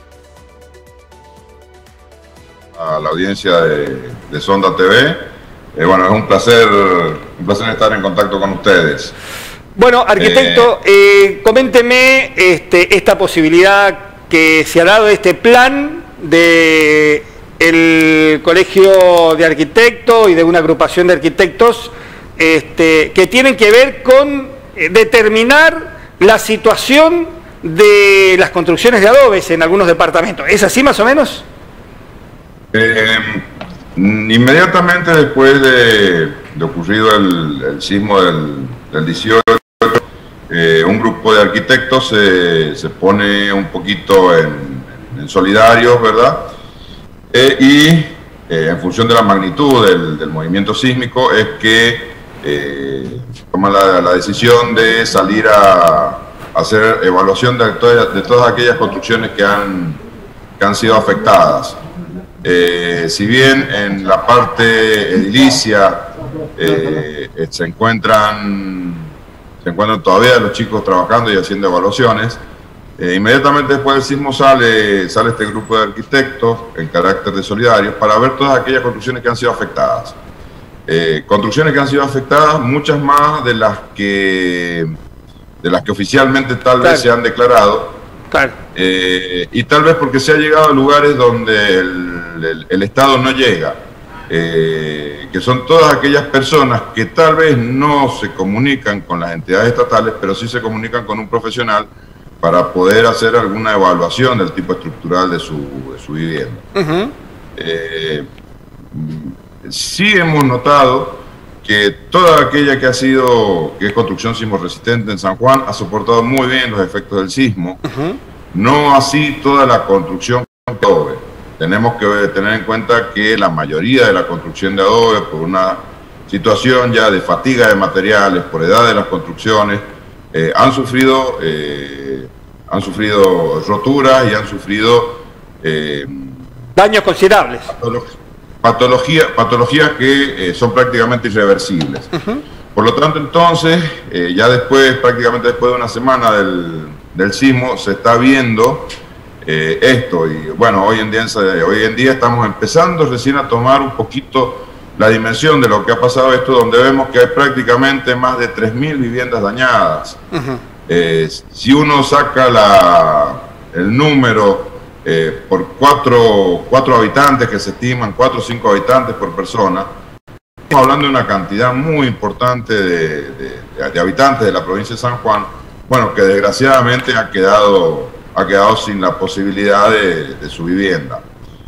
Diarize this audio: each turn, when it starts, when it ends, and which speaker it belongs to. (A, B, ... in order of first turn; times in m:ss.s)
0:02.7-0:09.1 A
0:09.8-0:31.4 B
0:10.2-0:10.7 A
0:32.7-0:33.4 A
0:34.0-0:46.5 A
0:47.3-1:00.0 A
1:00.6-1:01.8 A
1:02.4-1:09.1 A
1:09.6-1:12.4 A
1:13.0-1:20.2 A
1:20.9-1:24.9 A
1:25.6-1:28.0 A
1:28.3-1:28.6 B
1:28.7-1:33.8 A
1:34.3-1:41.9 A
1:42.4-1:46.6 A
1:46.7-1:47.1 B
1:47.6-1:48.2 A
1:48.9-1:57.8 A
1:57.8-1:58.2 B
1:58.5-2:16.5 A
2:16.7-2:17.7 B
2:17.7-2:18.1 A
2:18.6-2:22.1 A
2:22.1-2:22.4 B
2:22.7-2:40.2 A
2:40.3-2:40.6 B
2:40.9-2:49.9 A
2:50.7-3:01.2 A